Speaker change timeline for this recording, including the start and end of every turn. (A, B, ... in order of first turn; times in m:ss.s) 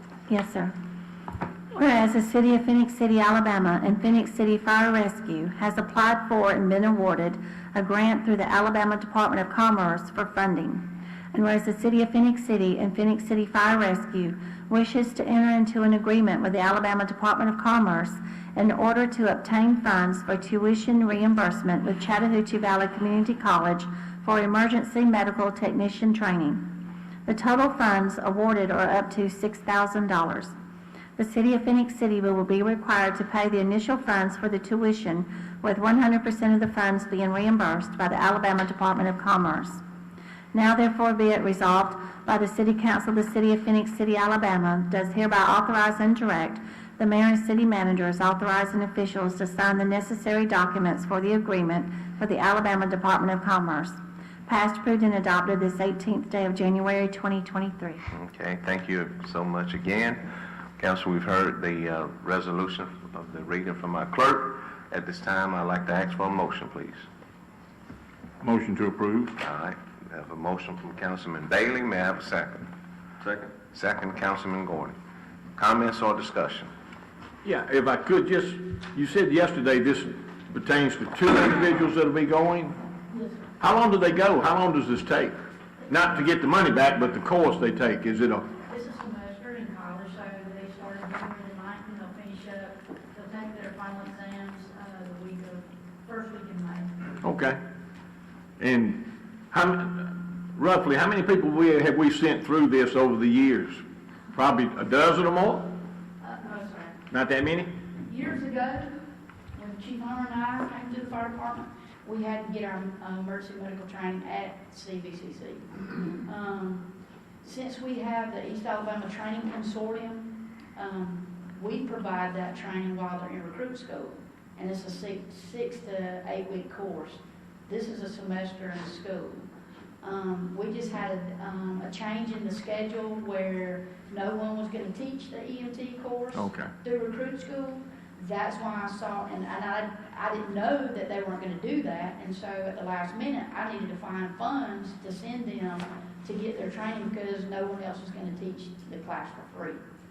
0:00.3-0:00.7 A
0:01.7-0:26.6 A
0:27.2-0:30.5 A
0:31.2-0:39.8 A
0:40.5-0:58.0 A
0:58.1-1:00.2 B
1:00.8-1:07.0 B
1:08.4-1:09.4 C
1:09.4-1:12.6 B
1:13.7-1:14.9 B
1:15.6-1:16.7 B
1:17.4-1:22.8 C
1:23.1-1:23.4 D
1:23.6-1:25.3 C
1:25.9-1:28.5 C
1:28.6-1:36.9 D
1:37.2-1:37.6 C
1:38.6-1:45.7 C
1:46.2-1:47.0 D
1:47.1-1:47.7 C
1:48.0-1:48.9 D
1:49.5-1:56.8 D
1:57.4-2:09.5 D
2:10.0-2:29.8 D
2:16.3-2:16.7 C